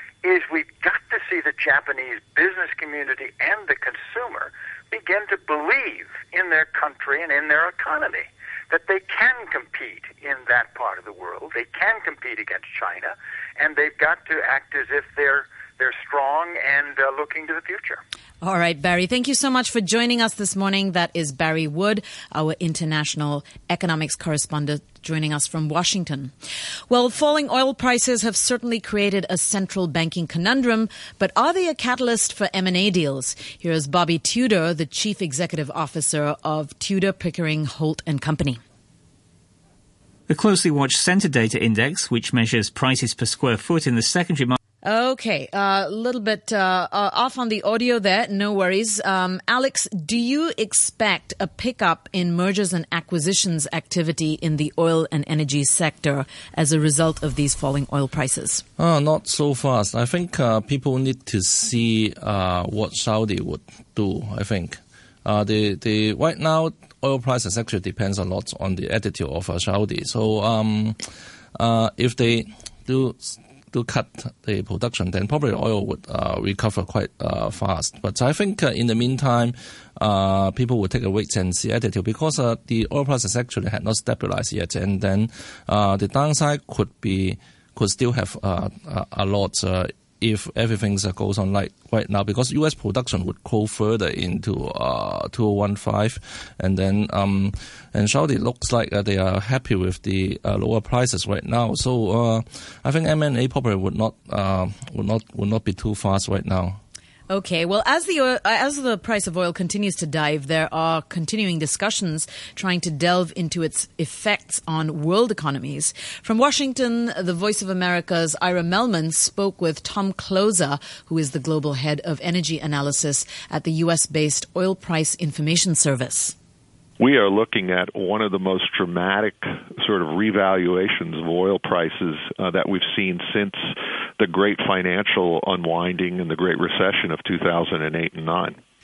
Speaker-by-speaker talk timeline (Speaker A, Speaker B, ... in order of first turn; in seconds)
Speaker A: 0.2-18.0
Speaker B: 18.4-26.3, 26.9-38.6, 44.8-58.6, 107.3-126.3
Speaker C: 40.3-44.6
Speaker D: 58.8-71.0, 71.5-106.8
Speaker E: 127.0-138.6